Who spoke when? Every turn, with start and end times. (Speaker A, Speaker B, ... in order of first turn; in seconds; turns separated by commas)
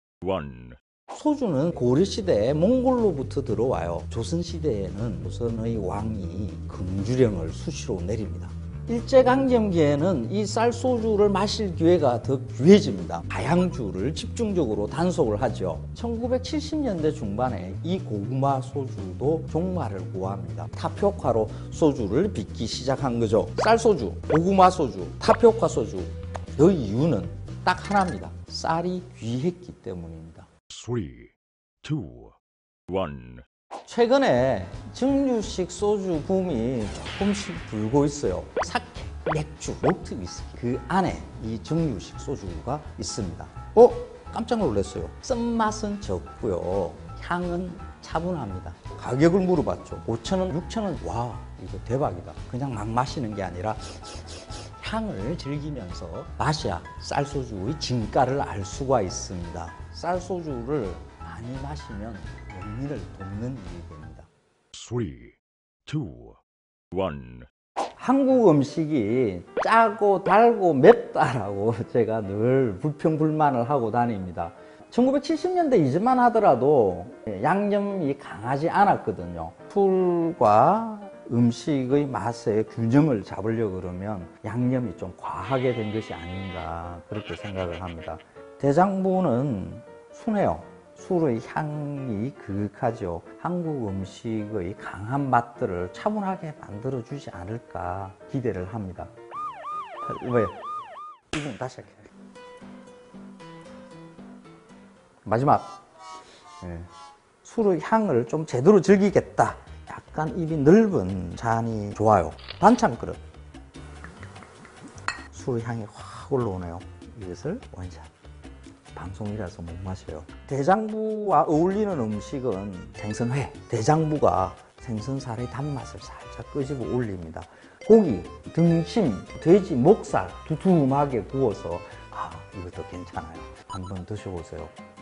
Speaker A: 0.2-0.8, Speaker B: 1.1-30.5, Speaker A: 30.7-32.4, Speaker A: 32.9-33.4, Speaker B: 33.9-64.3, Speaker A: 64.7-66.4, Speaker A: 66.9-67.5, Speaker B: 68.0-99.1, Speaker B: 100.0-100.6, Speaker B: 101.3-102.1, Speaker B: 105.2-105.7, Speaker B: 106.6-106.9, Speaker B: 107.4-113.2, Speaker B: 115.3-118.1, Speaker B: 118.9-134.7